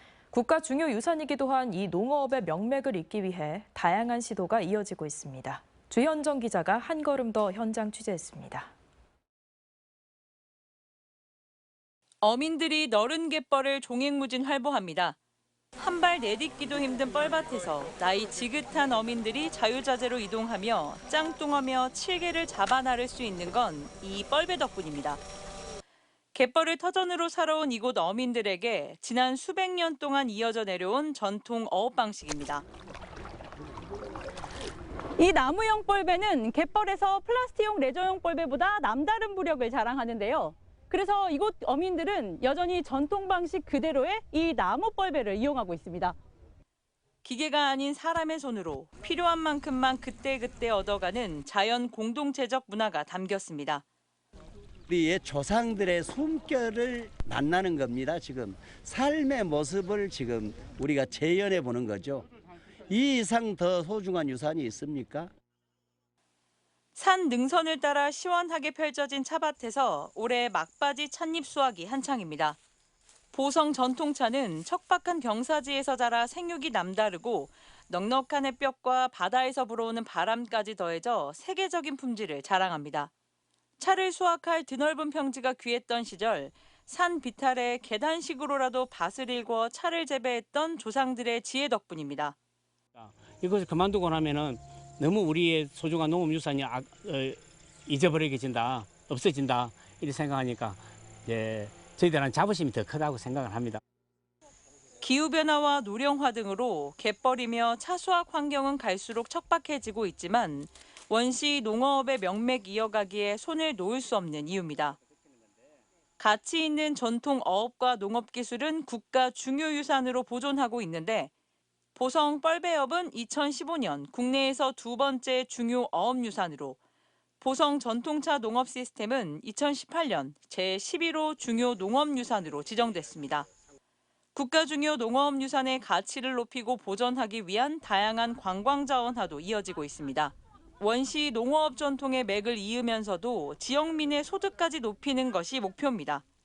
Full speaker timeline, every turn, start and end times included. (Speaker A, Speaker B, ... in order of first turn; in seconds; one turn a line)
Speaker A: 0.3-8.7
Speaker B: 12.2-15.2
Speaker B: 15.8-25.2
Speaker B: 26.4-32.6
Speaker C: 35.2-46.1
Speaker B: 47.2-53.8
Speaker D: 54.9-62.3
Speaker D: 62.9-65.3
Speaker B: 67.0-72.6
Speaker B: 73.3-83.1
Speaker B: 83.8-92.3
Speaker E: 93.0-103.8
Speaker B: 105.0-115.0
Speaker B: 116.2-121.3
Speaker B: 122.0-126.8
Speaker B: 127.4-133.5
Speaker B: 134.3-146.2